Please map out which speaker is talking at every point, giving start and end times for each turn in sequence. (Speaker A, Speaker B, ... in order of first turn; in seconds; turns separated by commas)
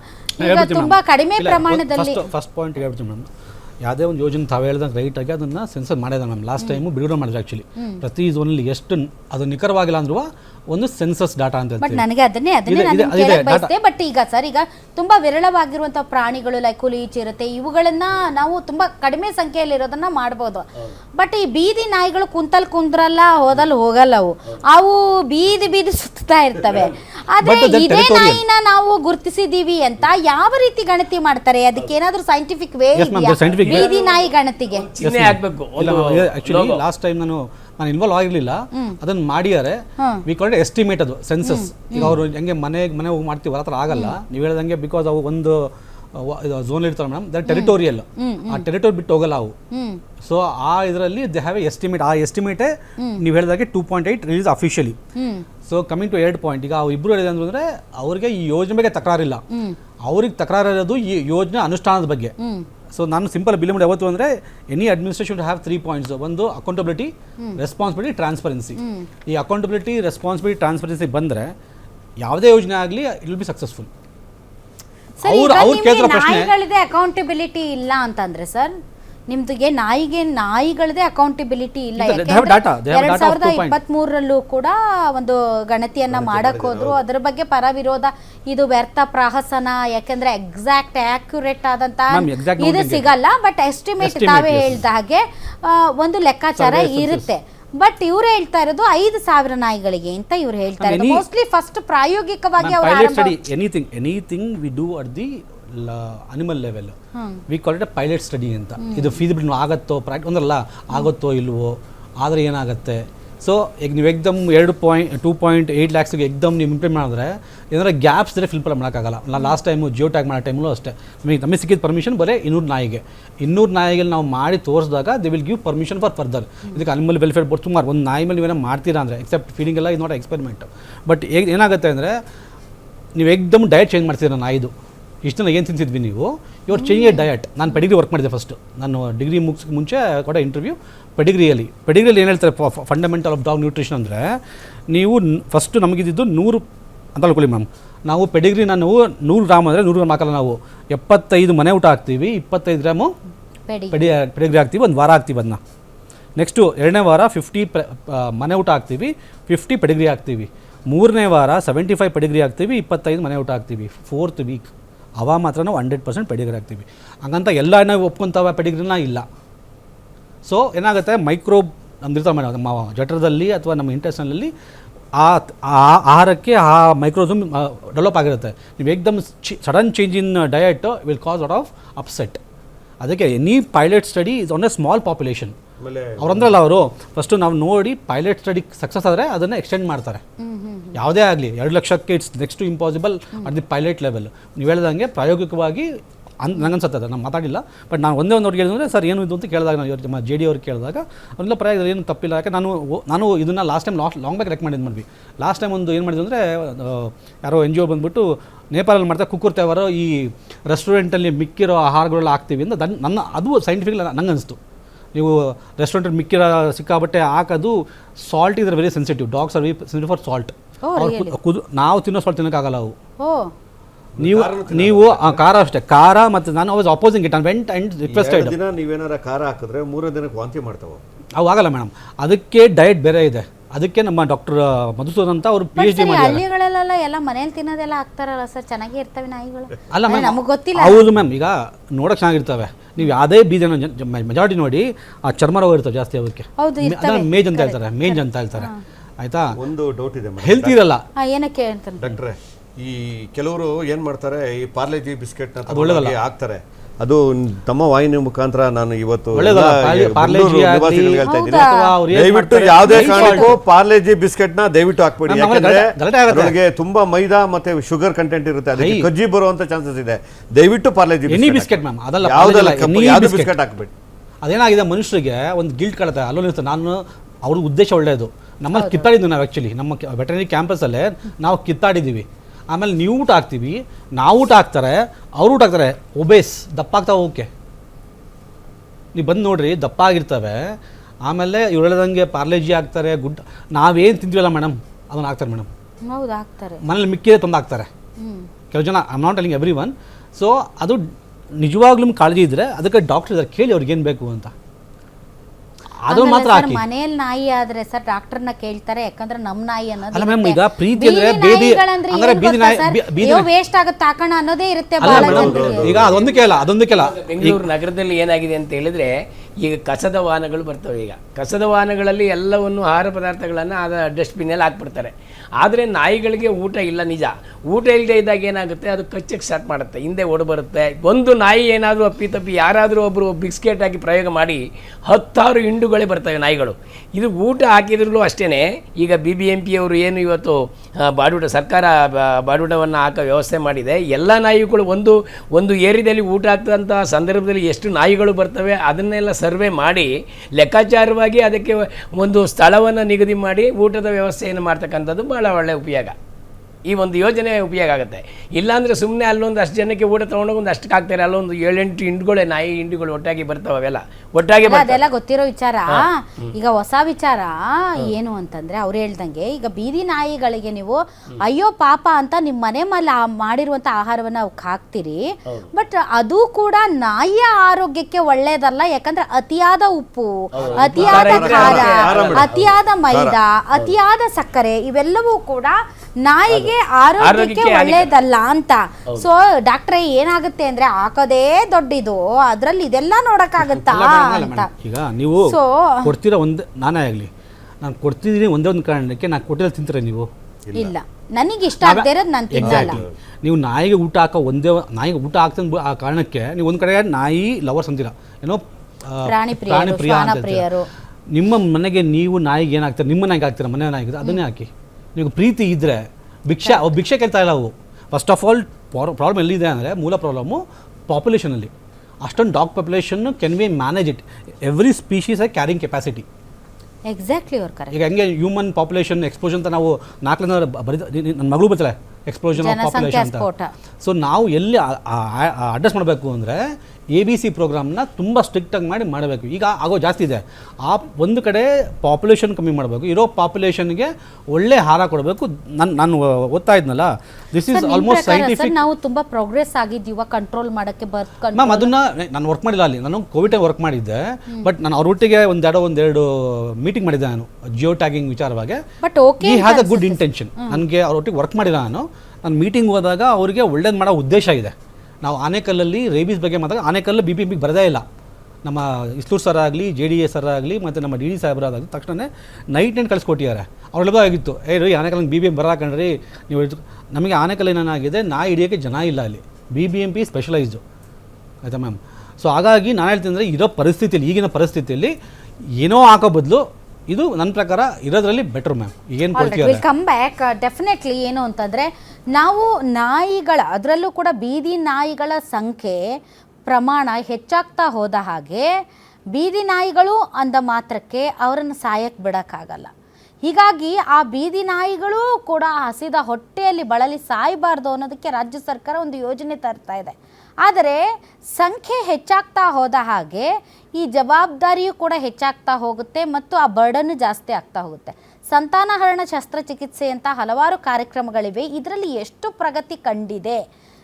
Speaker A: 0.4-2.3, Speaker B: 0.4-3.3, Speaker B: 3.8-12.0, Speaker A: 11.8-20.7, Speaker B: 12.7-13.7, Speaker A: 21.2-34.9, Speaker B: 27.4-28.4, Speaker B: 33.0-33.9, Speaker C: 33.4-36.8, Speaker B: 35.0-49.5, Speaker A: 41.5-42.1, Speaker A: 43.9-44.2, Speaker A: 47.5-48.6, Speaker A: 49.7-50.0, Speaker B: 50.2-55.0, Speaker A: 55.2-55.5, Speaker B: 55.7-59.4, Speaker A: 59.5-59.8, Speaker B: 60.1-62.3, Speaker A: 62.4-62.7, Speaker B: 62.9-71.5, Speaker A: 68.8-69.1, Speaker B: 72.2-73.9, Speaker A: 75.2-78.7, Speaker B: 75.2-76.5, Speaker A: 79.3-103.3, Speaker B: 82.0-83.8, Speaker D: 86.1-87.0, Speaker B: 92.1-93.1, Speaker B: 94.0-94.8, Speaker B: 96.5-97.3, Speaker B: 100.8-101.2, Speaker B: 102.6-107.0, Speaker A: 107.2-107.4, Speaker B: 107.5-132.2, Speaker A: 108.8-109.2, Speaker B: 133.2-134.7, Speaker B: 135.2-144.4, Speaker A: 136.7-137.3, Speaker B: 144.9-146.6, Speaker B: 147.2-153.1, Speaker A: 153.7-154.1, Speaker B: 153.9-155.6, Speaker B: 156.4-169.3, Speaker B: 170.5-174.5, Speaker B: 175.2-182.4, Speaker B: 183.0-185.6, Speaker D: 185.8-186.6, Speaker B: 186.2-190.2, Speaker A: 190.4-191.0, Speaker B: 190.9-195.9, Speaker B: 196.4-214.6, Speaker B: 215.2-222.9, Speaker A: 220.8-221.4, Speaker A: 223.2-223.5, Speaker D: 224.2-225.4, Speaker B: 224.2-228.6, Speaker D: 228.1-231.0, Speaker B: 231.4-236.4, Speaker A: 235.8-241.1, Speaker B: 239.9-249.5, Speaker A: 246.6-248.8, Speaker D: 249.6-250.8, Speaker B: 250.4-251.0, Speaker A: 251.2-252.1, Speaker D: 252.0-273.9, Speaker B: 255.7-256.1, Speaker B: 259.3-263.6, Speaker A: 261.2-262.0, Speaker A: 262.8-263.5, Speaker B: 265.3-266.6, Speaker B: 268.8-269.1, Speaker B: 271.3-273.5, Speaker B: 274.4-287.5, Speaker A: 278.7-279.1, Speaker B: 289.1-290.8, Speaker B: 291.3-295.7, Speaker A: 296.1-296.8, Speaker B: 296.8-297.9, Speaker A: 298.2-298.5, Speaker B: 298.7-301.0, Speaker B: 301.6-304.5, Speaker B: 306.0-306.8, Speaker A: 306.1-315.8, Speaker B: 310.1-313.5, Speaker B: 315.0-317.6, Speaker D: 315.0-316.2, Speaker C: 315.5-356.1, Speaker C: 356.9-365.0, Speaker A: 364.6-394.7, Speaker C: 365.9-366.5, Speaker C: 380.5-382.7, Speaker D: 380.6-382.5, Speaker D: 383.1-383.4, Speaker C: 386.5-388.1, Speaker B: 393.6-397.3, Speaker A: 395.5-396.1, Speaker B: 397.8-400.3, Speaker D: 400.7-400.9, Speaker A: 400.8-403.0, Speaker B: 401.8-410.7, Speaker D: 402.6-403.1, Speaker A: 409.2-410.9, Speaker B: 411.3-421.7, Speaker A: 416.6-416.9, Speaker B: 422.2-426.2, Speaker A: 427.1-427.9, Speaker B: 427.9-433.5, Speaker A: 432.6-433.7, Speaker B: 434.0-448.8, Speaker A: 447.7-451.9, Speaker B: 451.6-458.8, Speaker A: 459.0-460.8, Speaker B: 459.4-468.1, Speaker B: 468.6-480.8, Speaker B: 481.6-485.1, Speaker B: 485.8-489.9, Speaker A: 489.4-496.0, Speaker A: 496.7-498.7, Speaker A: 499.3-502.9, Speaker A: 503.4-511.0, Speaker A: 511.6-523.6